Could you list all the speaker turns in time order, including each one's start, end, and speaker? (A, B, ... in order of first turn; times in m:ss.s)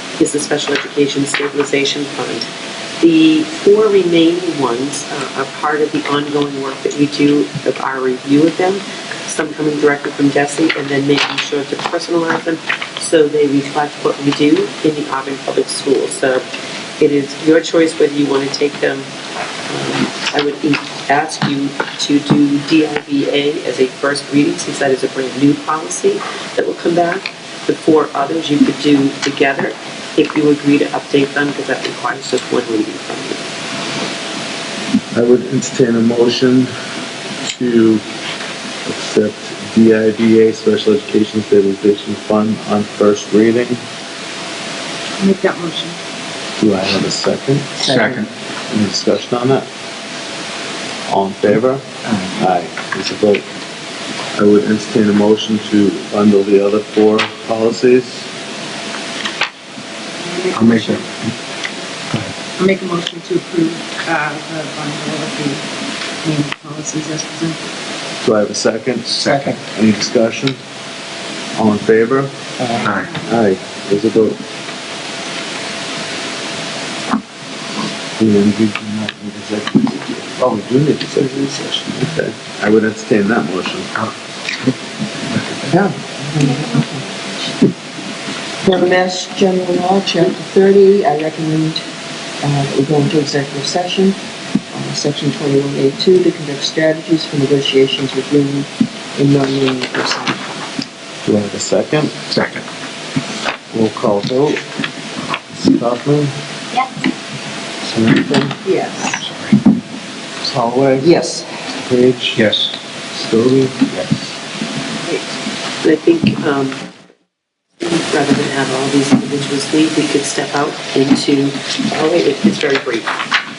0:00.2-0:16.5 A
0:17.0-0:19.1 A
0:19.7-0:33.4 A
0:35.1-0:36.7 B
0:37.4-0:38.0 B
0:38.8-0:43.8 B
0:45.2-0:46.0 C
0:46.6-0:48.0 B
0:47.8-0:48.3 D
0:48.7-0:49.7 B
0:51.1-0:53.4 B
0:52.1-0:52.3 D
0:54.3-0:58.2 B
1:00.2-1:01.0 C
1:00.5-1:01.2 D
1:02.6-1:05.6 C
1:06.2-1:07.6 C
1:08.2-1:10.6 B
1:09.2-1:09.6 D
1:11.5-1:12.3 B
1:12.8-1:13.1 D
1:13.1-1:14.4 B
1:18.2-1:24.0 B
1:25.3-1:25.6 D
1:25.7-1:27.7 E
1:28.6-1:31.8 E
1:32.4-1:34.2 E
1:34.7-1:40.4 E
1:41.2-1:42.2 B
1:42.3-1:42.6 D
1:43.7-1:44.6 B
1:45.5-1:46.3 B
1:47.8-1:48.6 B
1:49.1-1:49.6 D
1:50.4-1:51.2 B
1:51.0-1:51.5 E
1:51.8-1:52.4 B
1:52.4-1:52.7 D
1:53.1-1:54.3 B
1:55.8-1:56.8 A
1:57.8-2:03.1 A